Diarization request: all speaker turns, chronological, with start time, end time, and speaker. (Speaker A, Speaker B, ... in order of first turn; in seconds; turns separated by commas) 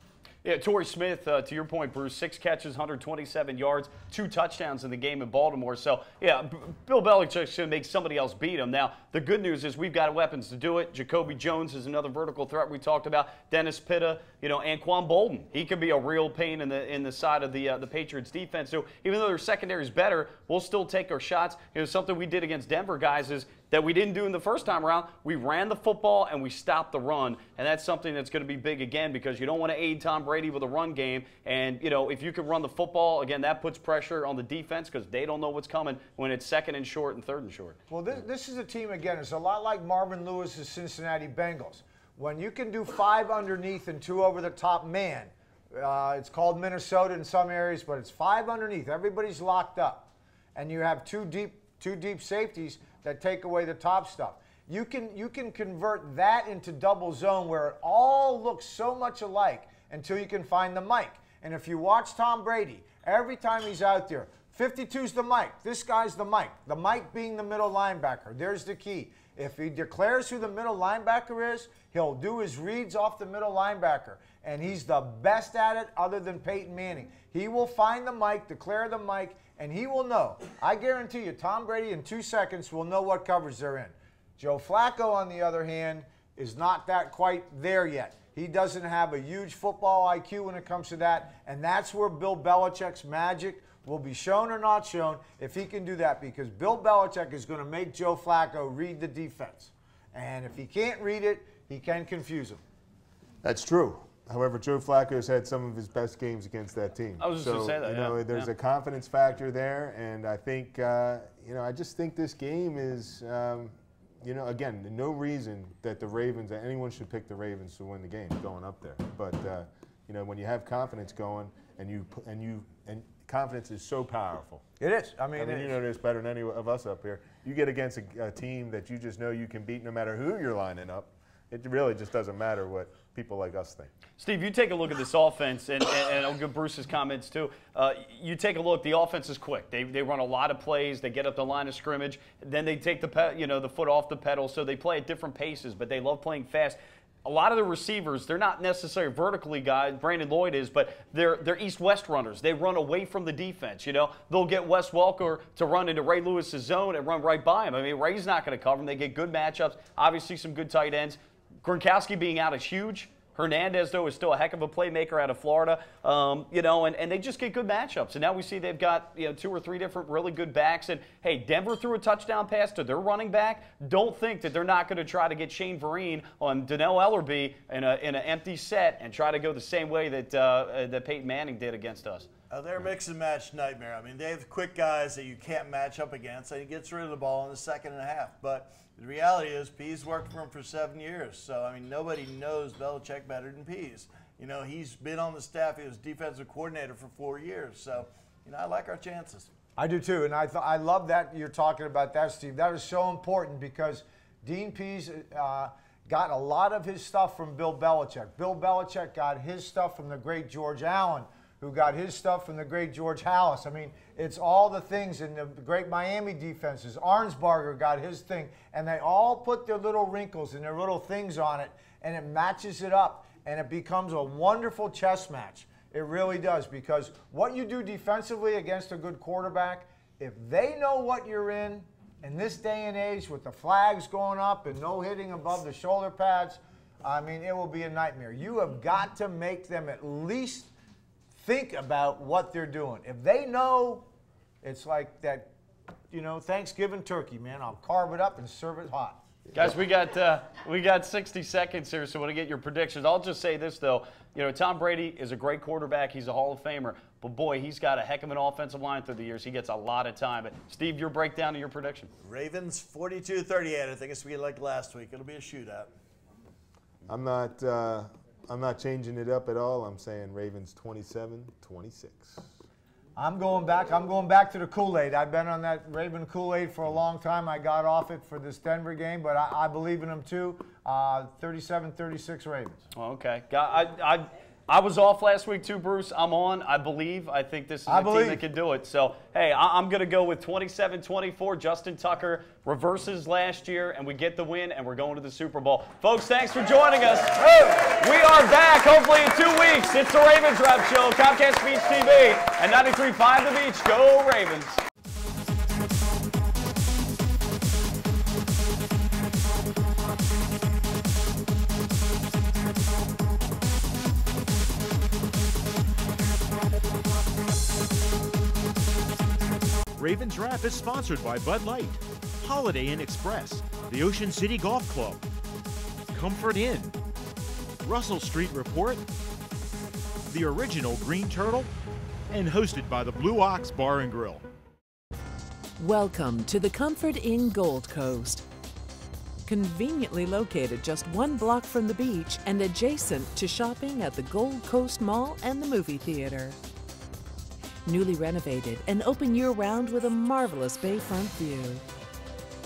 Speaker A: 0.4-37.8, Speaker B: 37.9-102.6, Speaker C: 103.4-124.6, Speaker A: 107.2-108.5, Speaker B: 124.8-125.8, Speaker C: 125.3-133.9, Speaker A: 134.2-182.3, Speaker D: 182.5-199.5, Speaker B: 199.8-240.7, Speaker B: 241.3-244.1, Speaker B: 244.6-245.5, Speaker B: 246.1-249.2, Speaker A: 249.5-262.1, Speaker D: 262.2-265.9, Speaker C: 267.1-272.5, Speaker B: 273.2-282.8, Speaker A: 282.9-304.8, Speaker B: 287.9-288.4, Speaker E: 320.0-325.2, Speaker E: 326.1-326.9, Speaker E: 327.9-329.0, Speaker E: 330.3-331.7, Speaker E: 332.3-334.4, Speaker F: 335.8-338.4, Speaker F: 339.5-346.6, Speaker F: 347.9-351.8